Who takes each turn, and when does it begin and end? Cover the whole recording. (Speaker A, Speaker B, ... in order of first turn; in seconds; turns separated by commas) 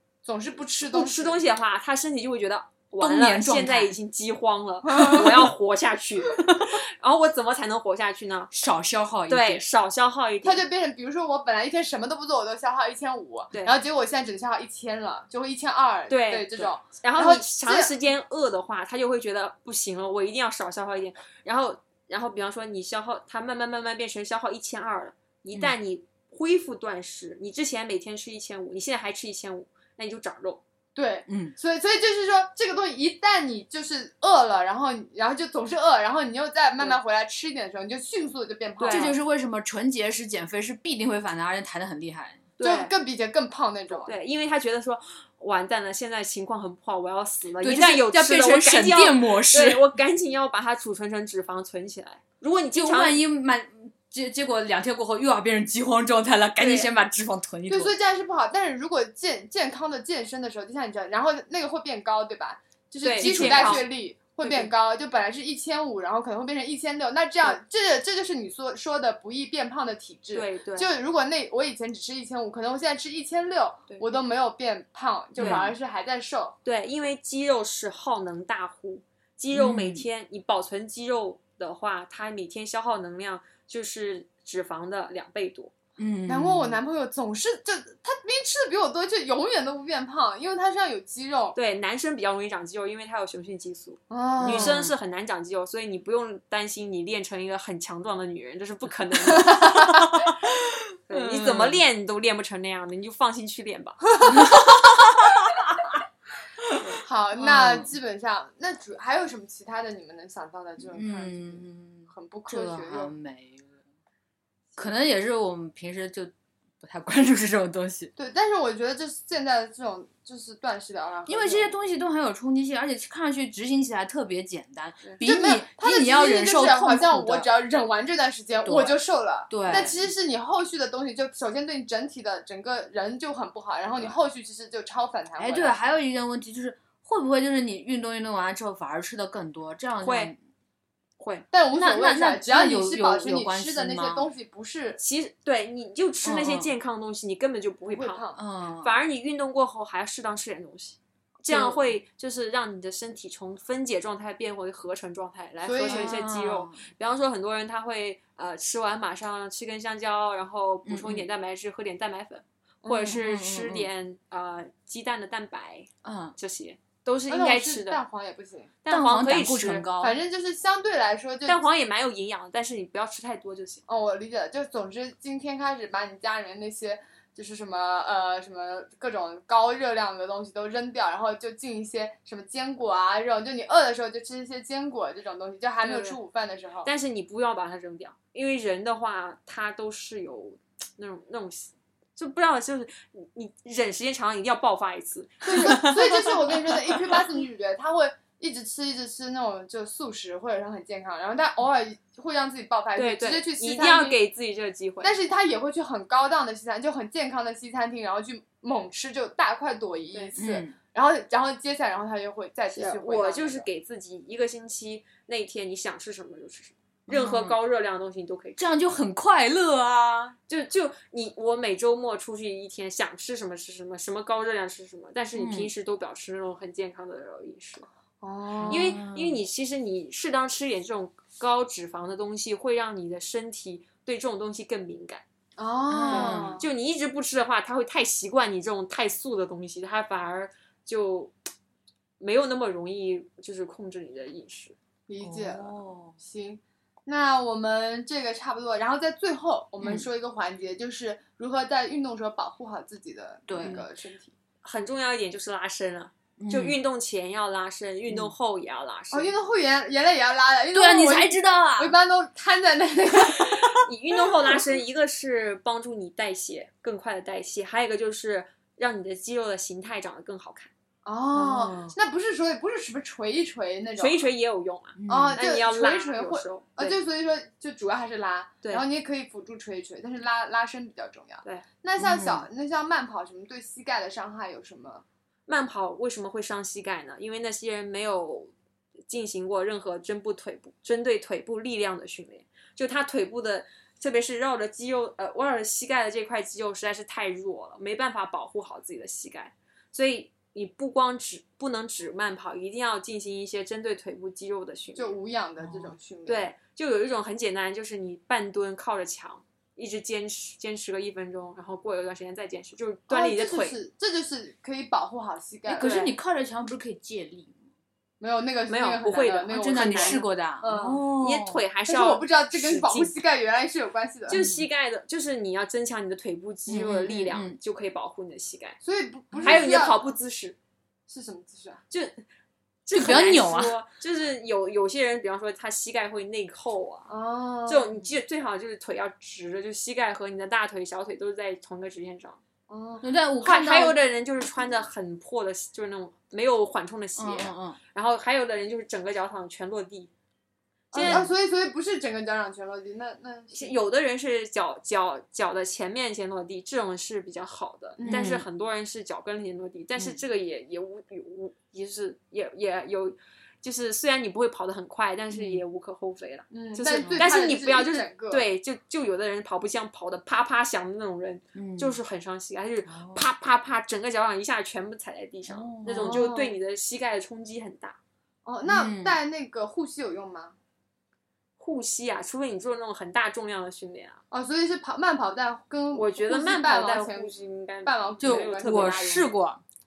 Speaker A: 0.2-1.4, Speaker B: 0.9-8.5, Speaker C: 3.0-3.9, Speaker A: 4.9-5.3, Speaker C: 6.5-6.7, Speaker C: 8.5-9.6, Speaker B: 9.3-10.7, Speaker A: 10.4-17.9, Speaker B: 16.1-30.6, Speaker A: 30.9-39.1, Speaker C: 31.3-31.5, Speaker B: 38.8-39.1, Speaker C: 38.8-42.4, Speaker B: 42.6-42.9, Speaker A: 42.6-44.1, Speaker B: 44.0-53.2, Speaker C: 47.6-49.8, Speaker C: 52.7-57.9, Speaker B: 56.6-56.9, Speaker A: 57.7-76.6, Speaker B: 63.0-63.9, Speaker C: 63.2-63.9, Speaker B: 64.4-64.7, Speaker B: 70.3-70.9, Speaker B: 75.4-75.7, Speaker C: 75.4-75.7, Speaker B: 76.7-85.7, Speaker C: 79.5-80.0, Speaker C: 86.0-86.8, Speaker A: 86.3-91.6, Speaker B: 91.5-100.1, Speaker A: 94.1-94.8, Speaker C: 94.4-94.9, Speaker A: 99.5-99.8, Speaker B: 101.1-104.5, Speaker C: 101.1-101.8, Speaker C: 104.3-105.2, Speaker B: 106.8-107.0, Speaker A: 107.0-113.1, Speaker C: 107.4-107.9, Speaker C: 110.9-113.7, Speaker C: 114.8-118.1, Speaker A: 118.2-121.7, Speaker C: 121.3-127.5, Speaker A: 125.1-135.8, Speaker C: 128.7-130.1, Speaker C: 135.4-140.4, Speaker B: 140.0-140.3, Speaker B: 141.2-141.5, Speaker A: 141.5-145.0, Speaker C: 141.7-144.3, Speaker B: 145.0-148.3, Speaker C: 146.2-146.7, Speaker A: 147.9-148.4, Speaker C: 148.4-149.0, Speaker B: 148.8-168.0, Speaker A: 151.5-151.8, Speaker A: 155.6-156.2, Speaker C: 155.9-156.8, Speaker C: 160.9-161.3, Speaker A: 162.8-163.1, Speaker C: 163.0-163.9, Speaker C: 166.0-166.3, Speaker A: 167.3-168.7, Speaker B: 168.8-169.9, Speaker C: 168.9-170.2, Speaker A: 170.0-171.6, Speaker B: 171.5-173.8, Speaker A: 173.9-186.9, Speaker B: 185.8-186.2, Speaker B: 186.8-196.3, Speaker A: 195.4-204.2, Speaker C: 195.7-196.0, Speaker B: 203.0-205.2, Speaker A: 205.0-213.7, Speaker C: 210.4-210.8, Speaker B: 212.7-218.6, Speaker C: 217.1-217.6, Speaker C: 218.6-220.4, Speaker B: 220.5-227.9, Speaker C: 225.3-225.7, Speaker A: 228.2-229.0, Speaker C: 228.6-229.4, Speaker B: 228.7-235.2, Speaker A: 235.6-236.7, Speaker C: 235.9-236.6, Speaker B: 236.1-241.3, Speaker B: 242.2-244.8, Speaker A: 245.1-254.3, Speaker C: 245.2-246.2, Speaker C: 249.8-250.1, Speaker C: 253.5-253.8, Speaker B: 254.6-259.4, Speaker C: 256.4-256.8, Speaker A: 259.1-263.7, Speaker C: 260.7-261.9, Speaker B: 263.6-270.7, Speaker A: 271.1-274.3, Speaker C: 271.3-271.9, Speaker B: 274.0-277.0, Speaker C: 275.0-275.4, Speaker A: 275.1-285.1, Speaker C: 282.0-282.4, Speaker B: 285.5-288.5, Speaker B: 289.1-305.2, Speaker A: 304.9-306.5, Speaker C: 305.6-305.9, Speaker B: 306.3-313.8, Speaker A: 313.1-315.9, Speaker C: 315.7-317.6, Speaker B: 315.8-316.1, Speaker A: 318.2-321.0, Speaker B: 318.7-320.3, Speaker C: 319.5-321.6, Speaker B: 321.1-323.1, Speaker A: 321.9-324.4, Speaker B: 324.3-328.8, Speaker C: 324.3-324.6, Speaker C: 326.7-327.6, Speaker A: 328.8-330.1, Speaker C: 329.3-329.6, Speaker B: 329.4-330.6, Speaker A: 331.1-331.8, Speaker B: 331.9-332.2, Speaker B: 332.9-337.1, Speaker C: 332.9-333.7, Speaker A: 337.1-338.0, Speaker B: 337.7-342.4, Speaker A: 342.7-343.1, Speaker C: 343.0-344.0, Speaker B: 343.4-350.1, Speaker C: 347.2-347.8, Speaker A: 350.9-353.8, Speaker B: 350.9-351.2, Speaker C: 351.0-351.3, Speaker B: 353.5-378.0, Speaker A: 358.0-358.3, Speaker C: 358.1-358.4, Speaker C: 365.3-365.6, Speaker A: 366.5-368.4, Speaker C: 366.9-367.3, Speaker C: 371.6-372.0, Speaker C: 372.9-373.3, Speaker C: 375.5-376.2, Speaker A: 375.9-376.6, Speaker A: 378.5-380.6, Speaker C: 378.7-379.2, Speaker B: 381.6-384.2, Speaker A: 384.3-389.2, Speaker B: 385.9-389.3, Speaker C: 388.2-389.6